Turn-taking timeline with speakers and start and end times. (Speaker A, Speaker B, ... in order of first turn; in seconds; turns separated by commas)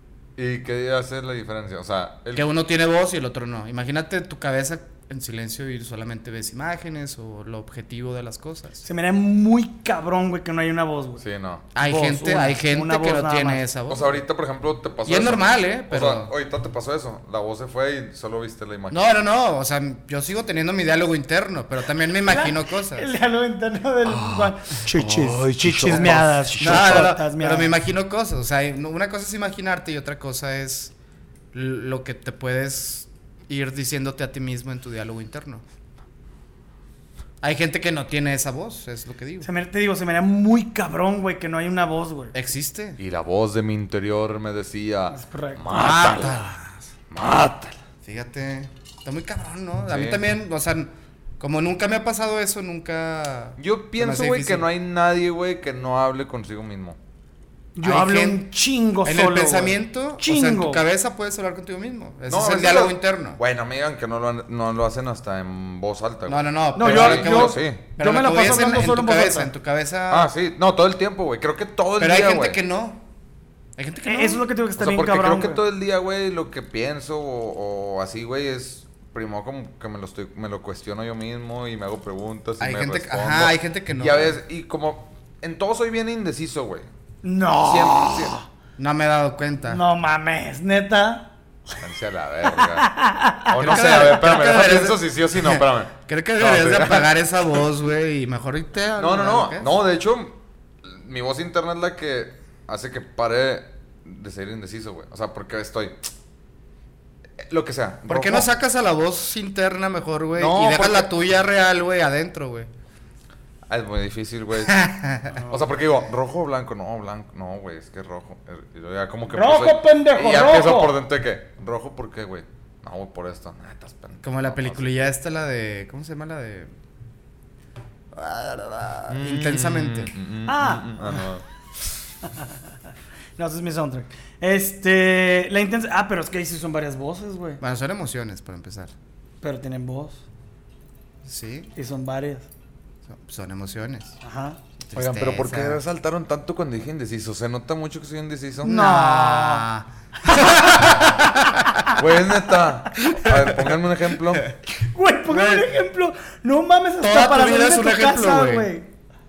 Speaker A: 0.4-2.5, Speaker B: 2.3-8.8, Speaker C: 8.8-11.2, Speaker A: 11.2-11.7, Speaker B: 11.8-14.2, Speaker C: 11.8-13.6, Speaker A: 13.9-19.1, Speaker B: 15.1-16.3, Speaker B: 18.9-23.1, Speaker C: 22.3-27.7, Speaker A: 24.1-27.1, Speaker B: 26.6-30.9, Speaker B: 31.5-35.6, Speaker B: 37.4-39.5, Speaker C: 39.4-42.3, Speaker B: 42.3-43.0, Speaker A: 43.0-46.5, Speaker C: 45.1-45.6, Speaker B: 45.7-46.9, Speaker A: 47.1-47.8, Speaker B: 48.0-54.7, Speaker A: 49.9-50.2, Speaker A: 53.6-57.0, Speaker C: 57.8-60.8, Speaker B: 57.8-58.5, Speaker B: 59.0-63.4, Speaker A: 62.3-67.8, Speaker B: 66.3-70.3, Speaker C: 66.8-69.5, Speaker A: 70.1-72.6, Speaker B: 72.0-73.0, Speaker B: 73.8-74.4, Speaker C: 74.0-75.6, Speaker A: 74.8-86.9, Speaker B: 82.6-84.4, Speaker C: 87.2-88.4, Speaker A: 87.6-88.4, Speaker B: 88.8-89.8, Speaker C: 89.7-91.3, Speaker A: 91.8-92.9, Speaker C: 92.6-94.2, Speaker A: 93.5-97.1, Speaker B: 93.6-99.8, Speaker A: 99.0-106.1, Speaker A: 107.4-108.5, Speaker B: 108.1-112.7, Speaker A: 110.4-111.1, Speaker A: 113.7-114.8, Speaker B: 114.7-115.4, Speaker A: 115.5-124.9, Speaker C: 119.3-120.9, Speaker B: 124.2-126.7, Speaker B: 128.1-130.1, Speaker A: 129.1-131.4, Speaker C: 130.5-131.3, Speaker C: 132.2-132.6, Speaker C: 133.4-137.6, Speaker B: 137.6-138.9, Speaker C: 139.4-140.2, Speaker B: 141.2-141.7, Speaker C: 141.8-142.5, Speaker B: 143.1-144.2, Speaker C: 144.2-144.6, Speaker B: 144.8-145.8, Speaker A: 144.9-148.8, Speaker C: 148.6-149.7, Speaker B: 148.6-151.8, Speaker C: 150.3-152.0, Speaker A: 151.9-154.5, Speaker C: 153.0-153.2, Speaker B: 153.3-153.6, Speaker C: 154.7-158.9, Speaker B: 155.3-155.8, Speaker B: 157.0-158.7